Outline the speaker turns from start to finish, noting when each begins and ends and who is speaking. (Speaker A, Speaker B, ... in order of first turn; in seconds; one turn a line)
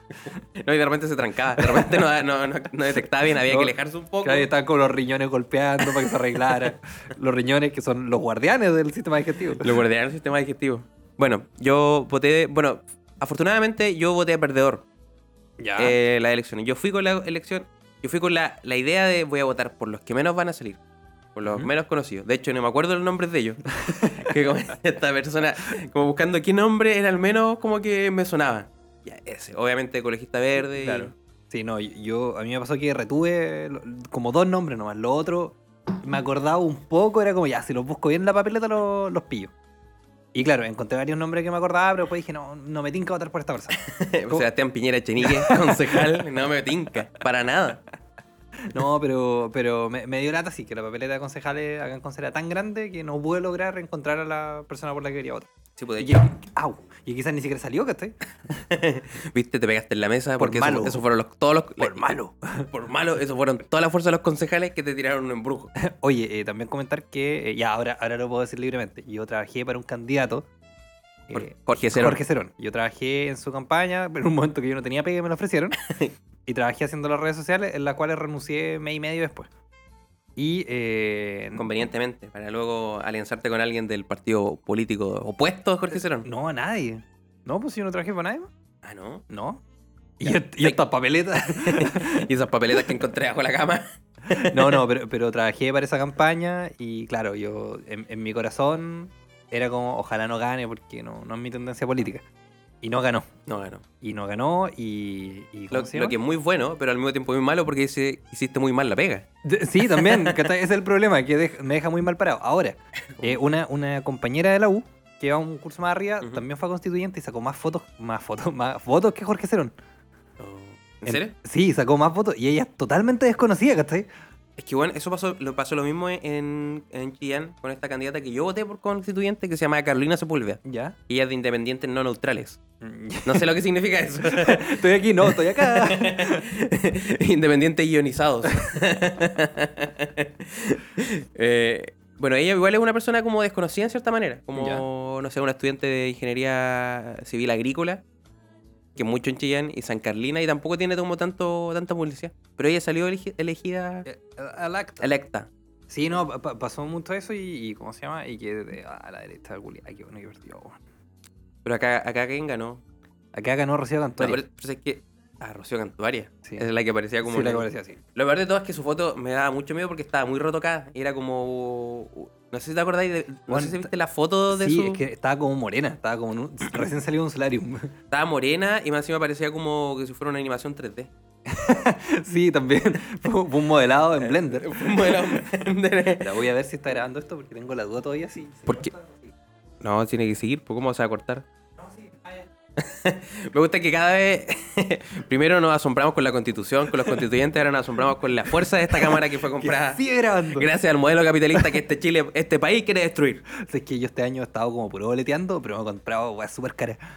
Speaker A: 0.5-4.5
Speaker B: 1.6-2.1
Speaker B: 3.3-9.8
Speaker A: 5.8-6.7
Speaker A: 9.6-14.8
Speaker B: 15.6-16.0
Speaker A: 15.8-20.8
Speaker A: 21.3-31.1
Speaker B: 23.8-24.3
Speaker B: 30.8-39.5
Speaker B: 40.3-44.5
Speaker A: 43.7-47.8
Speaker B: 45.2-46.1
Speaker B: 48.7-58.1
Speaker A: 55.8-56.3
Speaker A: 58.7-62.1
Speaker B: 60.4-61.0
Speaker B: 61.8-62.7
Speaker A: 62.7-65.7
Speaker B: 65.8-70.5
Speaker B: 71.3-75.8
Speaker A: 71.3-72.2
Speaker B: 76.5-79.5
Speaker B: 80.3-81.7
Speaker A: 81.5-86.3
Speaker B: 86.2-88.5
Speaker A: 88.8-89.2
Speaker B: 89.3-89.6
Speaker A: 90.2-90.8
Speaker B: 90.2-92.2
Speaker A: 91.5-94.8
Speaker B: 94.3-102.2
Speaker B: 102.8-103.3
Speaker A: 103.5-103.8
Speaker B: 104.0-106.2
Speaker A: 105.7-109.2
Speaker B: 109.4-119.7
Speaker A: 109.8-110.5
Speaker A: 120.4-121.3
Speaker B: 121.0-124.1
Speaker A: 124.6-132.6
Speaker B: 130.6-130.9
Speaker B: 132.8-133.5
Speaker A: 133.2-148.0
Speaker B: 134.2-136.5
Speaker B: 144.6-144.8
Speaker A: 148.9-154.1
Speaker B: 154.1-155.1
Speaker A: 155.0-155.5
Speaker B: 155.9-160.8
Speaker A: 161.6-162.8
Speaker B: 163.3-164.4
Speaker A: 164.2-175.0
Speaker B: 167.2-168.0
Speaker B: 173.5-173.9
Speaker B: 174.5-177.9
Speaker A: 178.1-181.1
Speaker B: 181.5-185.3
Speaker A: 184.2-186.4
Speaker B: 186.2-189.3
Speaker A: 189.8-191.4
Speaker B: 191.8-192.4
Speaker A: 192.8-203.4
Speaker B: 199.0-200.7
Speaker B: 203.5-207.0